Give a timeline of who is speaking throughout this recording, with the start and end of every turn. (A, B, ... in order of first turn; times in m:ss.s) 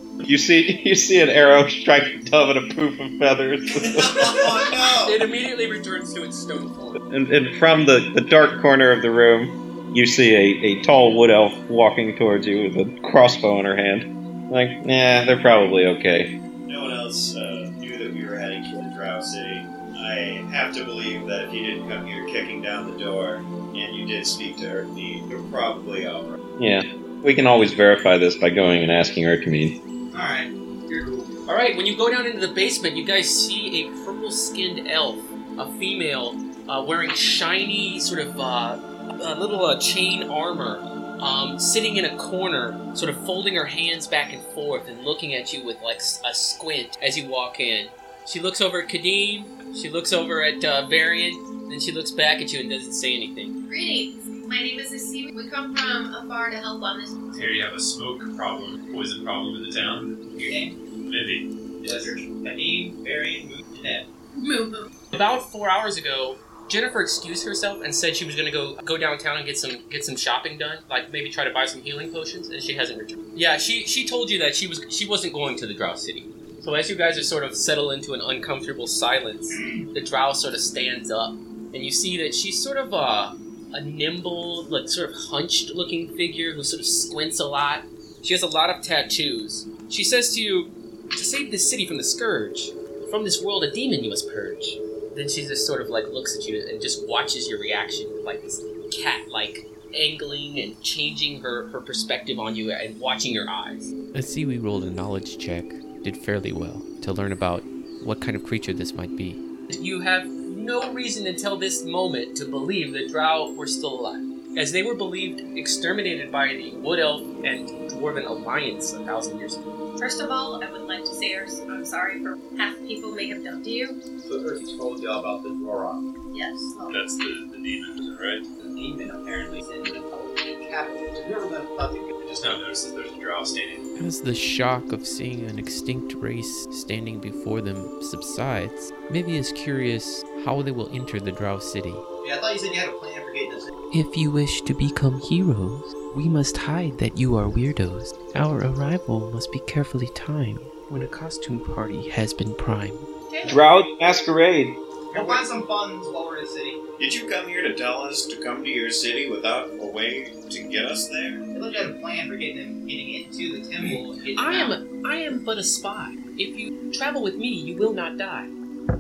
0:00.2-0:04.5 A
0:03.8-0:05.2 B
0:05.0-0:07.0 C
0:07.1-0:16.4 A
0:16.7-0:26.4 B
0:26.6-0:29.8 A
0:30.1-0:31.3 D
0:31.5-0:53.6 C
0:53.7-0:57.2 E
0:57.3-1:00.5 F
1:00.3-1:00.8 D
1:01.0-1:02.0 F
1:01.8-1:04.1 D
1:04.4-1:04.9 E
1:05.1-1:43.9 C
1:44.1-1:49.4 G
1:49.7-1:59.6 C
2:00.0-2:04.0 E
2:04.2-2:06.0 D
2:06.3-2:07.1 E
2:06.9-2:08.5 F
2:08.6-2:12.2 D
2:12.2-2:13.9 F
2:14.0-2:22.0 G
2:22.2-2:23.7 D
2:23.9-2:33.1 G
2:33.3-2:33.6 E
2:33.4-2:34.8 A
2:35.1-2:36.8 D
2:37.0-2:41.4 B
2:41.5-2:44.8 D
2:44.3-2:48.5 C